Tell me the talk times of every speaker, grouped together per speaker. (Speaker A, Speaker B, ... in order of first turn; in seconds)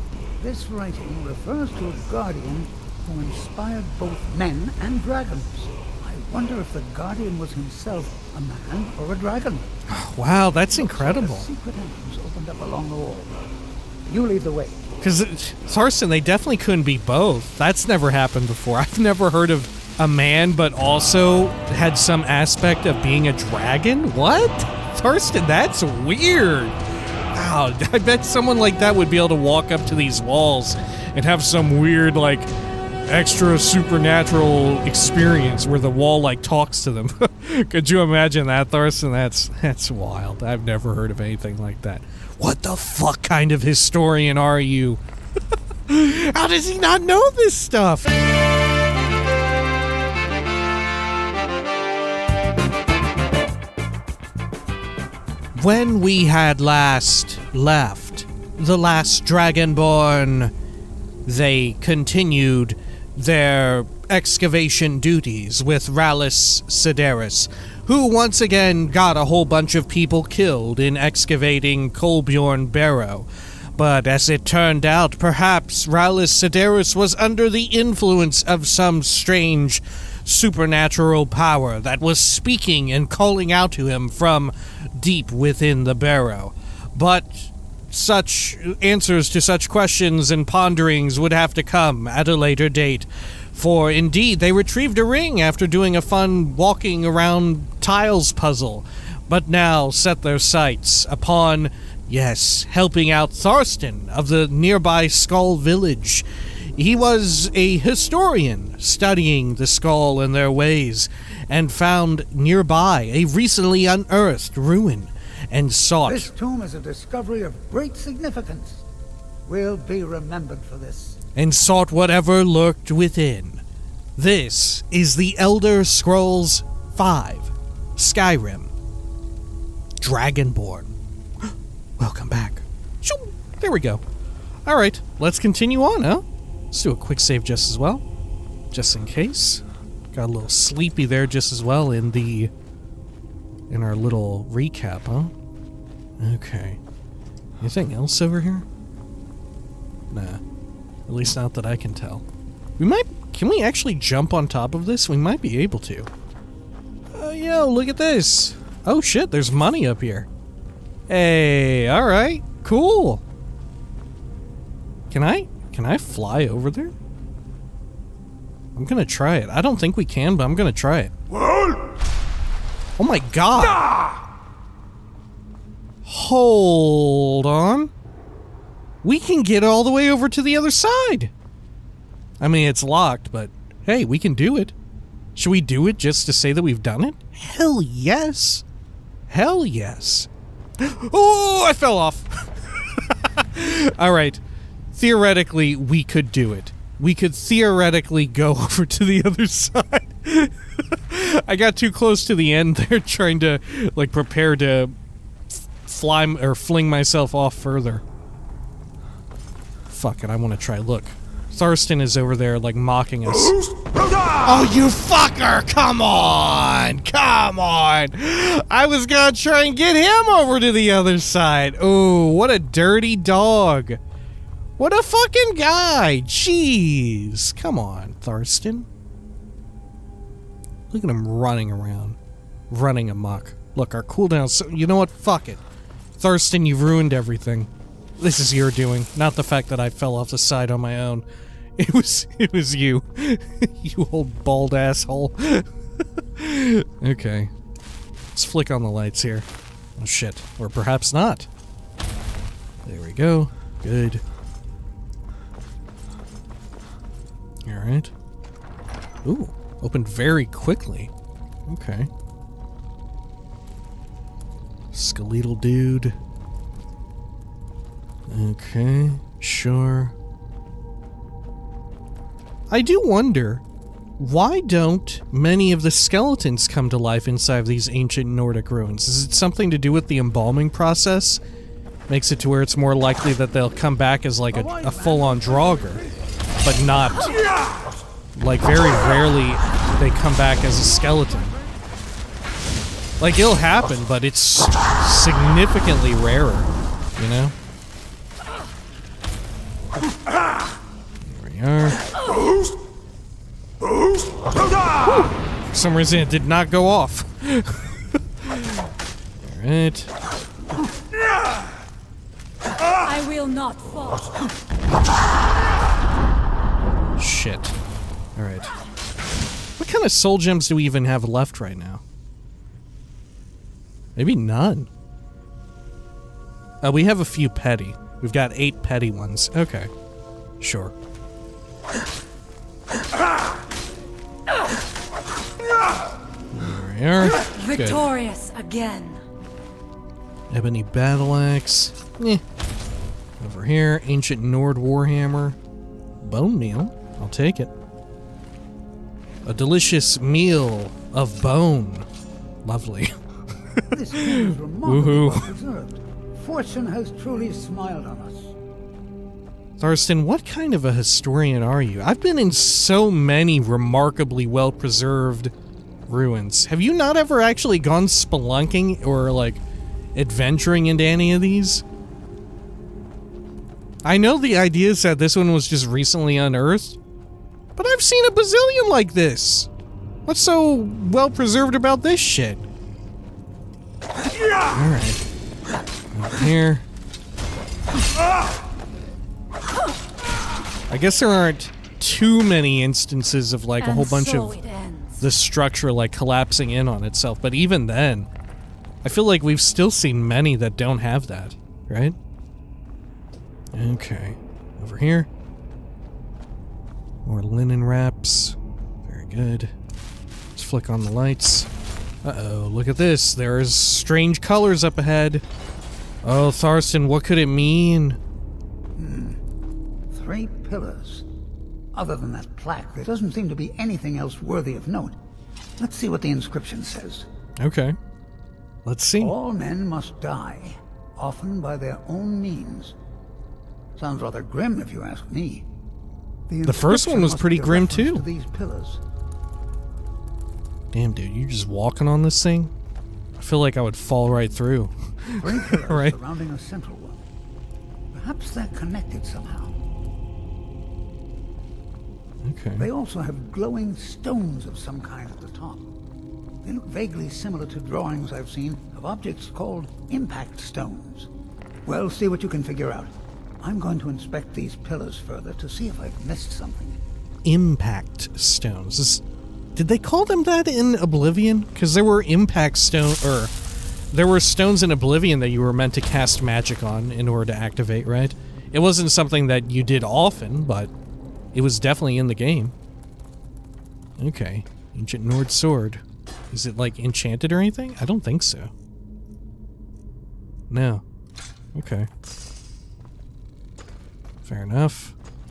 Speaker A: 0.4-9.7, 10.7-13.4, 14.1-14.8, 116.0-118.9, 119.5-121.2, 284.5-286.1, 290.6-291.8, 353.9-358.6, 419.0-419.4, 420.1-421.3, 421.9-425.2, 425.8-427.3, 429.2-433.0, 434.0-435.7, 436.5-439.0, 445.4-447.2, 448.1-449.8, 452.8-455.9, 456.6-461.3, 461.9-467.0
Speaker B: 9.9-11.5, 15.0-26.8, 27.3-32.5, 33.1-45.0, 45.9-48.2, 55.5-60.5, 61.2-116.3, 121.3-123.6, 124.2-128.7, 130.0-130.9, 131.5-134.0, 134.7-138.0, 138.7-142.5, 143.7-145.3, 146.2-146.8, 147.6-148.7, 150.1-150.4, 151.1-152.2, 152.8-156.1, 157.1-160.3, 161.1-163.2, 165.1-166.9, 168.8-171.1, 173.0-173.9, 176.0-177.9, 179.0-181.3, 182.4-184.8, 185.3-188.7, 189.3-194.4, 194.9-204.9, 205.5-208.0, 209.9-213.6, 214.4-224.0, 224.8-228.9, 230.9-232.2, 232.7-235.6, 236.2-241.2, 241.8-247.5, 248.3-251.5, 252.8-254.2, 257.6-258.1, 259.2-261.1, 261.7-262.1, 264.9-266.2, 268.3-270.1, 272.7-273.6, 274.2-281.4, 282.1-286.0, 286.6-287.4, 288.4-291.5, 293.2-297.6, 301.2-302.0, 305.0-308.9, 309.4-310.1, 317.2-317.8, 318.4-318.7, 319.8-322.0, 324.2-324.9, 326.8-329.9, 330.6-330.9, 336.5-338.1, 340.5-342.4, 343.4-345.6, 346.2-347.7, 349.4-352.1, 352.6-353.1, 353.7-355.5, 359.8-365.5, 366.1-369.6, 370.1-371.8, 374.0-377.0, 377.8-379.7, 380.3-382.6, 384.7-385.2, 386.1-386.9, 390.9-394.6, 395.2-398.3, 399.0-402.2, 403.7-405.3, 407.2-409.7, 410.6-411.7, 412.2-415.4, 416.2-418.2, 427.6-428.0, 428.9-429.4, 436.6-438.2, 440.9-442.7, 443.4-446.2, 452.4-452.9, 467.4-469.2, 469.8-473.5, 474.1-480.9, 481.5-482.8, 484.2-488.7, 490.7-491.0, 491.8-492.1, 494.4-495.1
Speaker C: 313.0-314.3, 337.3-339.2, 393.8-395.3